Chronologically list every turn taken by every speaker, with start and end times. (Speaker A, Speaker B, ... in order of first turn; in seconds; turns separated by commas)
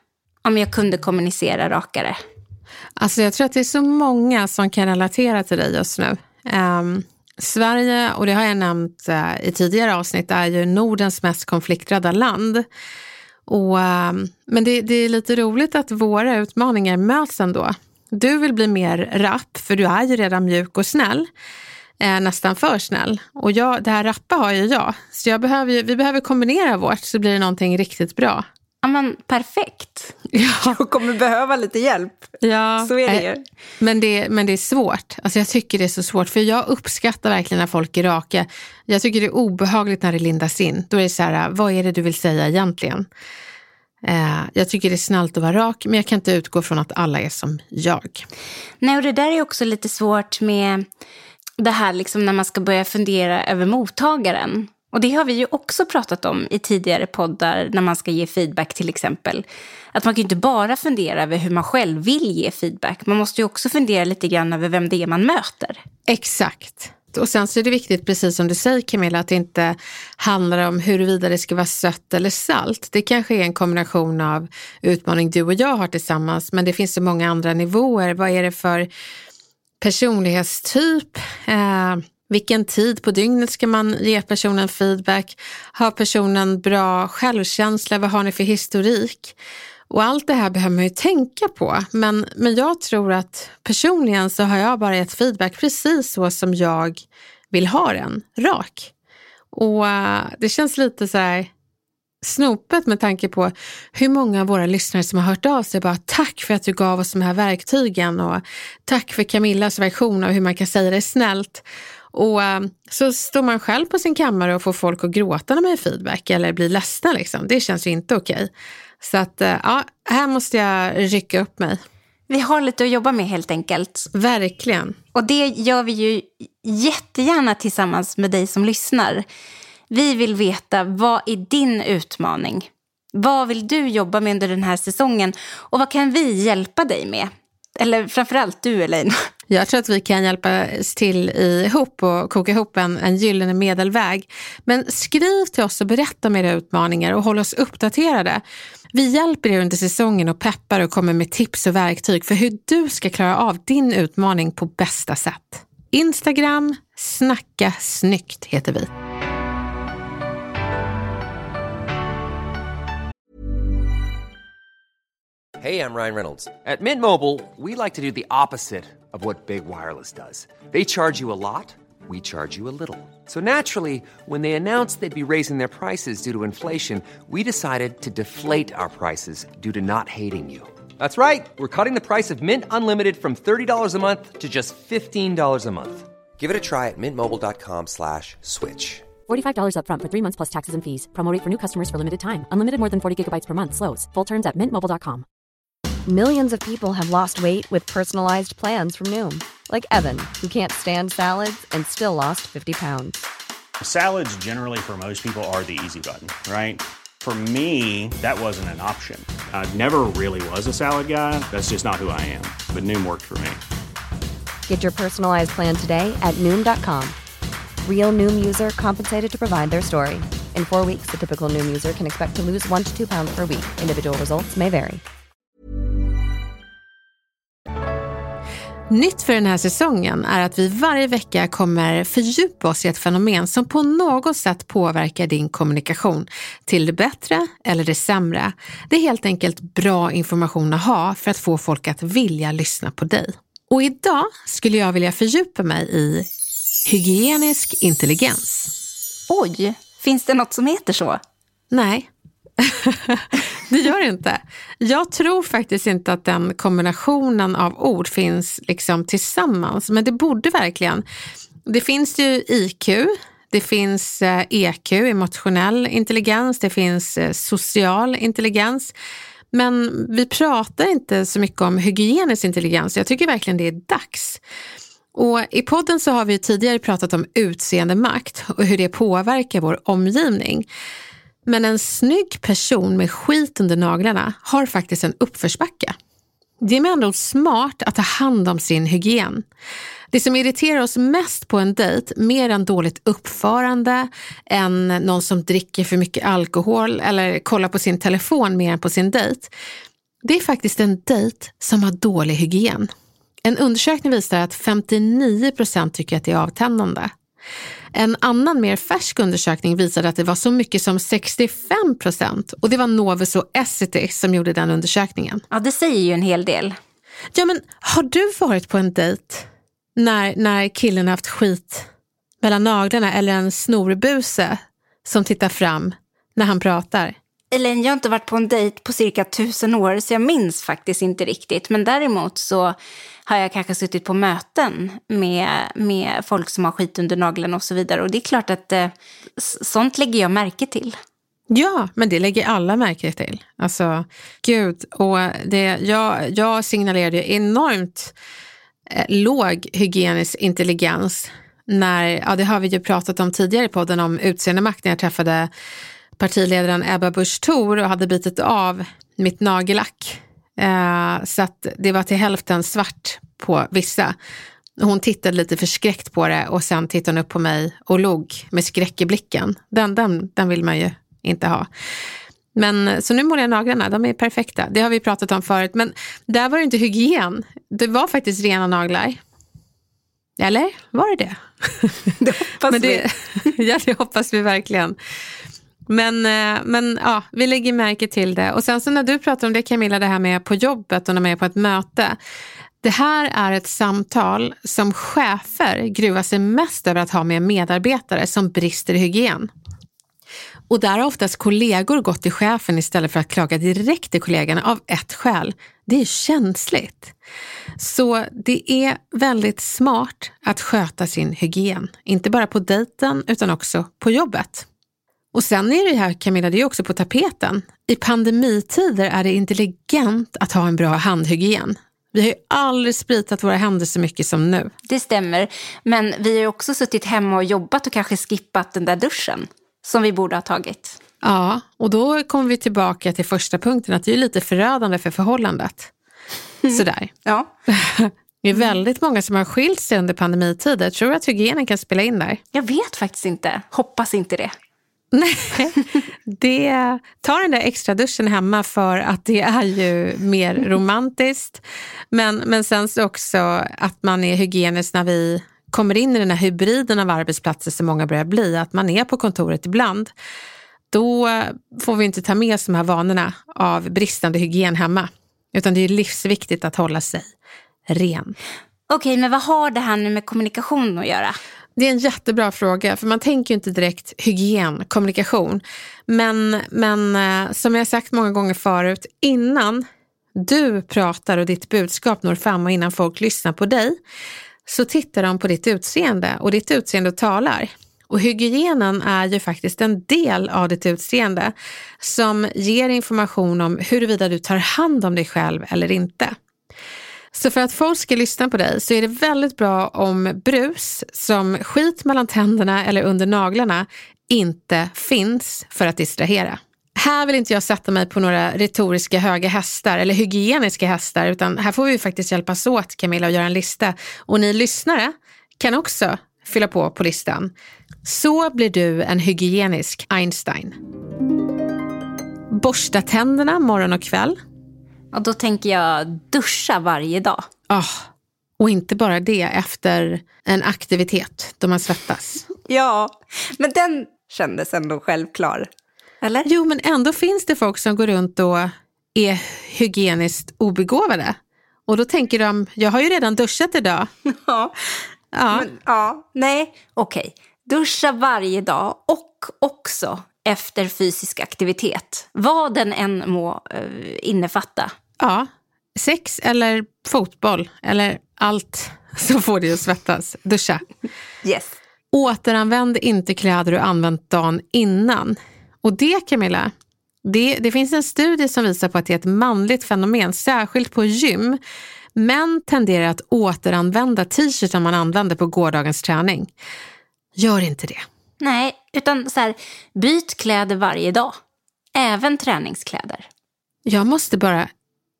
Speaker A: 0.4-2.2, Speaker B: 3.0-12.7, Speaker B: 13.5-21.3, Speaker B: 22.0-28.4, Speaker A: 28.8-32.3, Speaker B: 30.3-30.8, Speaker B: 32.4-33.2, Speaker A: 32.8-33.4, Speaker B: 33.8-43.1, Speaker B: 44.0-48.2, Speaker A: 48.8-50.9, Speaker A: 51.6-65.8, Speaker B: 66.1-78.9, Speaker B: 79.8-89.3, Speaker B: 89.9-98.9, Speaker B: 99.5-101.5, Speaker B: 102.2-121.8, Speaker A: 122.3-124.1, Speaker B: 124.1-125.0, Speaker A: 125.1-129.2, Speaker A: 129.9-139.3, Speaker B: 139.5-148.4, Speaker B: 148.9-158.9, Speaker C: 165.6-189.1, Speaker D: 189.2-195.2, Speaker E: 196.1-203.2, Speaker F: 203.8-213.6, Speaker E: 214.7-217.2, Speaker E: 217.8-225.0, Speaker B: 228.9-246.3, Speaker B: 246.8-248.7, Speaker A: 249.3-251.2, Speaker B: 251.7-261.0, Speaker B: 261.6-268.9, Speaker B: 269.5-274.4, Speaker B: 275.1-280.7, Speaker B: 281.4-285.9, Speaker B: 286.6-289.4, Speaker B: 290.1-299.5, Speaker B: 300.2-302.9, Speaker B: 303.4-307.1, Speaker B: 307.9-315.4, Speaker A: 315.5-316.7, Speaker B: 317.3-321.9, Speaker B: 322.4-327.1, Speaker A: 327.5-332.7, Speaker A: 333.3-340.9, Speaker B: 341.5-348.1, Speaker B: 348.9-355.5, Speaker B: 356.2-364.1, Speaker B: 364.8-371.7, Speaker B: 372.5-379.2, Speaker B: 380.4-382.1, Speaker A: 382.2-383.1, Speaker B: 382.6-384.9, Speaker B: 385.9-392.2, Speaker B: 392.8-399.5, Speaker B: 400.7-407.1, Speaker B: 407.8-414.6, Speaker B: 415.3-424.7, Speaker A: 424.9-431.0, Speaker B: 431.2-435.9, Speaker A: 436.6-437.5, Speaker B: 436.7-437.1, Speaker B: 437.7-442.4, Speaker A: 442.5-444.5, Speaker B: 445.1-460.1, Speaker B: 460.9-467.3, Speaker B: 467.9-468.3, Speaker A: 468.9-471.4, Speaker B: 471.8-479.8, Speaker B: 480.3-484.0, Speaker B: 484.6-496.4, Speaker B: 497.3-517.5, Speaker B: 518.0-520.8, Speaker B: 522.5-524.4, Speaker A: 525.1-527.4, Speaker B: 527.7-528.1, Speaker B: 528.6-532.5, Speaker A: 532.7-535.7, Speaker A: 536.2-536.5, Speaker B: 536.5-544.1, Speaker A: 544.3-554.9, Speaker B: 545.3-545.7, Speaker B: 555.2-560.8, Speaker A: 561.4-561.8, Speaker B: 562.1-566.7, Speaker B: 567.2-571.6, Speaker B: 572.1-576.5, Speaker B: 577.4-578.0, Speaker A: 578.4-581.3, Speaker A: 581.9-583.2, Speaker B: 583.9-584.7